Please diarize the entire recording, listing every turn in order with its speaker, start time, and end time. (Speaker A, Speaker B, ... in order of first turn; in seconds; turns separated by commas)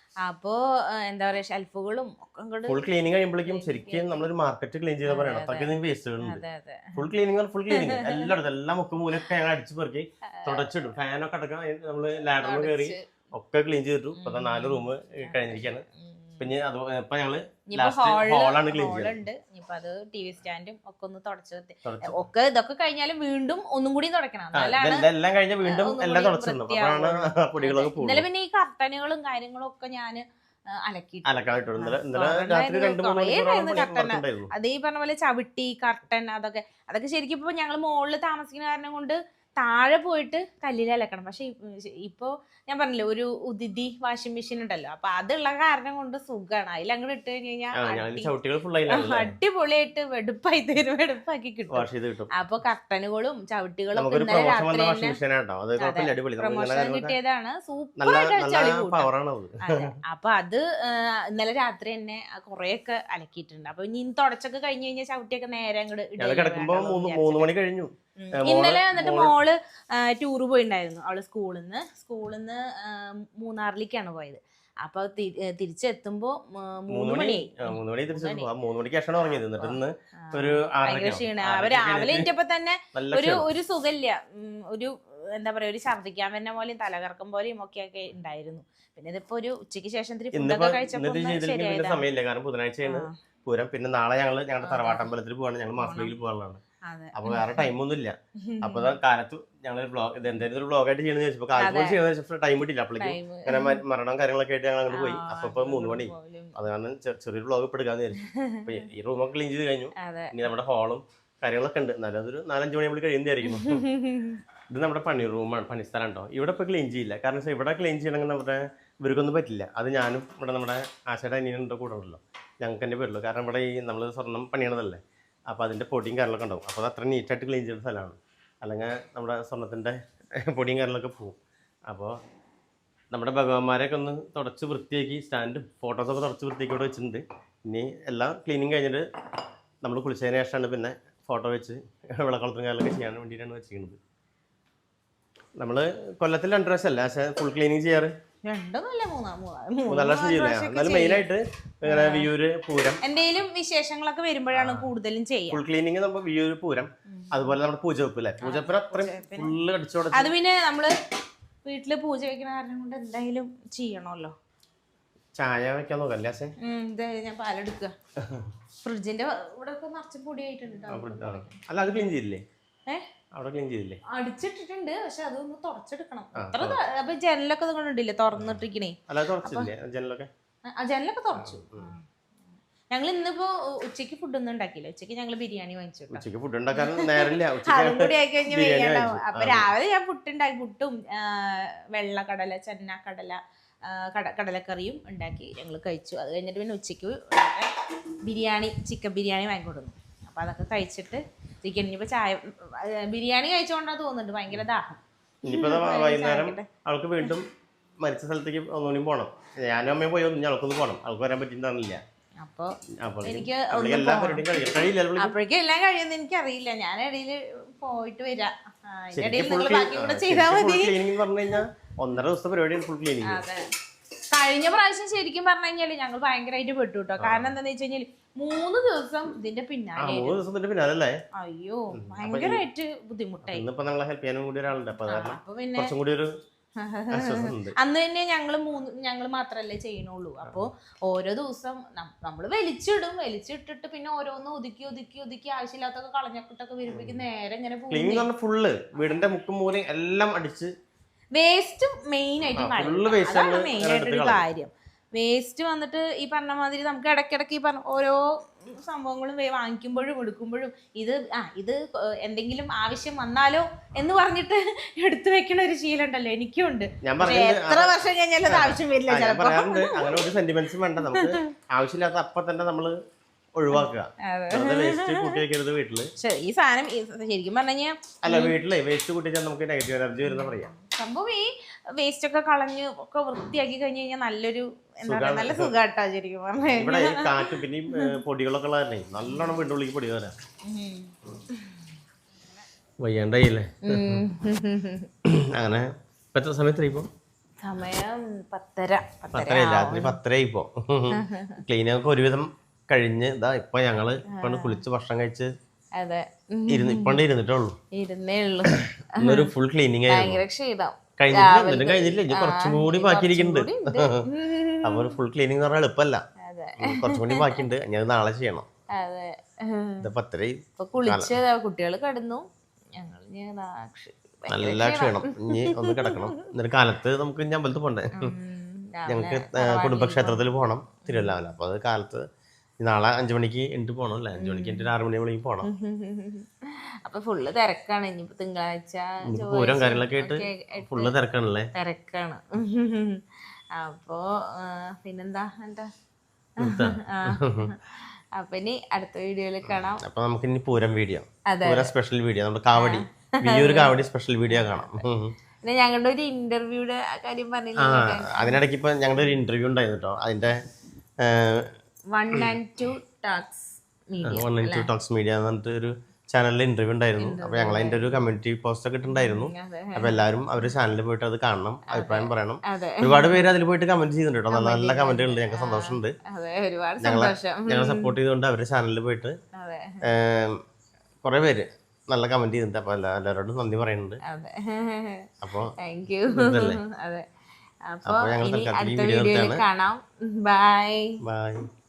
Speaker A: 0.2-2.8, Speaker B: 2.7-6.4, Speaker A: 3.4-4.2, Speaker A: 5.0-7.0, Speaker B: 6.9-15.8, Speaker A: 7.7-8.3, Speaker A: 10.3-10.7, Speaker A: 12.4-13.0, Speaker A: 14.2-16.5, Speaker B: 16.4-19.2, Speaker A: 17.7-25.1, Speaker B: 21.8-22.2, Speaker B: 24.5-28.2, Speaker A: 25.6-48.4, Speaker B: 31.2-34.5, Speaker B: 47.8-49.4, Speaker A: 48.9-55.2, Speaker B: 51.7-52.3, Speaker B: 54.0-57.1, Speaker A: 55.8-59.1, Speaker B: 58.0-59.9, Speaker A: 59.6-67.5, Speaker B: 66.2-69.3, Speaker A: 68.2-78.5, Speaker B: 76.9-82.3, Speaker A: 79.5-92.0, Speaker B: 82.9-83.4, Speaker B: 90.3-96.6, Speaker A: 92.9-93.1, Speaker A: 94.6-95.1, Speaker A: 95.8-96.1, Speaker A: 96.8-97.7, Speaker B: 97.1-113.8, Speaker A: 98.4-99.0, Speaker A: 101.5-102.0, Speaker A: 103.0-103.8, Speaker A: 104.9-106.5, Speaker A: 108.2-108.8, Speaker A: 110.0-110.4, Speaker A: 113.4-114.4, Speaker B: 114.7-131.4, Speaker B: 131.9-132.2, Speaker B: 133.1-139.0, Speaker B: 139.8-144.0, Speaker B: 145.6-148.1, Speaker A: 148.4-151.2, Speaker B: 149.9-153.0, Speaker A: 151.8-152.3, Speaker A: 153.0-155.6, Speaker B: 154.5-154.9, Speaker B: 155.5-160.3, Speaker A: 157.1-157.5, Speaker A: 158.4-159.6, Speaker A: 160.1-160.9, Speaker A: 161.6-164.3, Speaker B: 165.4-166.5, Speaker A: 166.6-167.9, Speaker B: 168.2-168.5, Speaker A: 168.8-171.6, Speaker B: 170.9-172.4, Speaker B: 173.3-174.0, Speaker A: 174.1-179.7, Speaker B: 176.3-176.8, Speaker B: 178.4-180.3, Speaker A: 180.7-182.0, Speaker B: 181.3-181.9, Speaker A: 182.9-197.7, Speaker B: 186.1-189.7, Speaker A: 198.2-206.7, Speaker B: 205.4-207.5, Speaker B: 208.0-212.0, Speaker A: 212.4-214.5, Speaker B: 213.0-215.3, Speaker A: 215.2-221.0, Speaker B: 219.2-223.4, Speaker A: 223.2-223.7, Speaker A: 224.3-230.4, Speaker B: 227.2-227.5, Speaker B: 230.0-231.2, Speaker A: 231.3-233.7, Speaker B: 231.9-232.6, Speaker B: 233.4-236.3, Speaker A: 235.1-235.9, Speaker A: 236.8-248.3, Speaker B: 237.1-237.7, Speaker B: 247.9-250.7, Speaker A: 251.3-270.3, Speaker B: 252.6-254.4, Speaker B: 267.0-267.9, Speaker B: 268.5-272.9, Speaker A: 271.0-271.4, Speaker B: 273.6-276.1, Speaker A: 273.7-275.4, Speaker A: 276.2-278.5, Speaker B: 278.2-280.7, Speaker A: 280.2-288.1, Speaker B: 285.0-285.7, Speaker B: 286.7-290.3, Speaker A: 290.6-291.8, Speaker B: 293.0-294.2, Speaker A: 293.8-295.1, Speaker B: 295.2-297.1, Speaker A: 297.6-300.2, Speaker B: 299.3-305.5, Speaker A: 301.1-301.6, Speaker A: 304.3-304.8, Speaker A: 306.0-307.2, Speaker B: 306.7-307.8, Speaker A: 307.9-309.5, Speaker B: 308.7-310.4, Speaker A: 310.1-315.2, Speaker B: 311.2-314.3, Speaker B: 314.8-316.2, Speaker A: 316.4-317.6, Speaker B: 316.8-318.6, Speaker A: 319.0-320.1, Speaker B: 320.0-321.4, Speaker A: 320.8-322.4, Speaker A: 323.0-326.5, Speaker B: 324.5-328.3, Speaker A: 328.1-331.5, Speaker B: 329.1-332.2, Speaker B: 332.8-335.7, Speaker A: 334.3-334.9, Speaker A: 335.6-341.1, Speaker B: 339.3-341.7, Speaker A: 341.8-343.2, Speaker A: 343.7-345.9, Speaker B: 346.6-347.7, Speaker A: 346.6-350.0, Speaker B: 349.6-355.3, Speaker A: 351.5-351.9, Speaker A: 352.7-353.9, Speaker A: 354.5-355.0, Speaker A: 355.6-358.6, Speaker B: 357.8-360.6, Speaker B: 361.2-361.7, Speaker A: 362.1-364.9, Speaker B: 364.2-376.1, Speaker A: 367.2-368.2, Speaker A: 369.1-370.7, Speaker A: 371.9-373.5, Speaker A: 374.5-378.1, Speaker B: 377.0-379.4, Speaker A: 379.5-380.1, Speaker B: 380.0-380.6, Speaker B: 381.2-384.2, Speaker A: 384.2-387.2, Speaker B: 385.4-385.7, Speaker B: 386.3-386.8, Speaker A: 387.9-391.2, Speaker B: 388.0-389.6, Speaker B: 391.2-391.6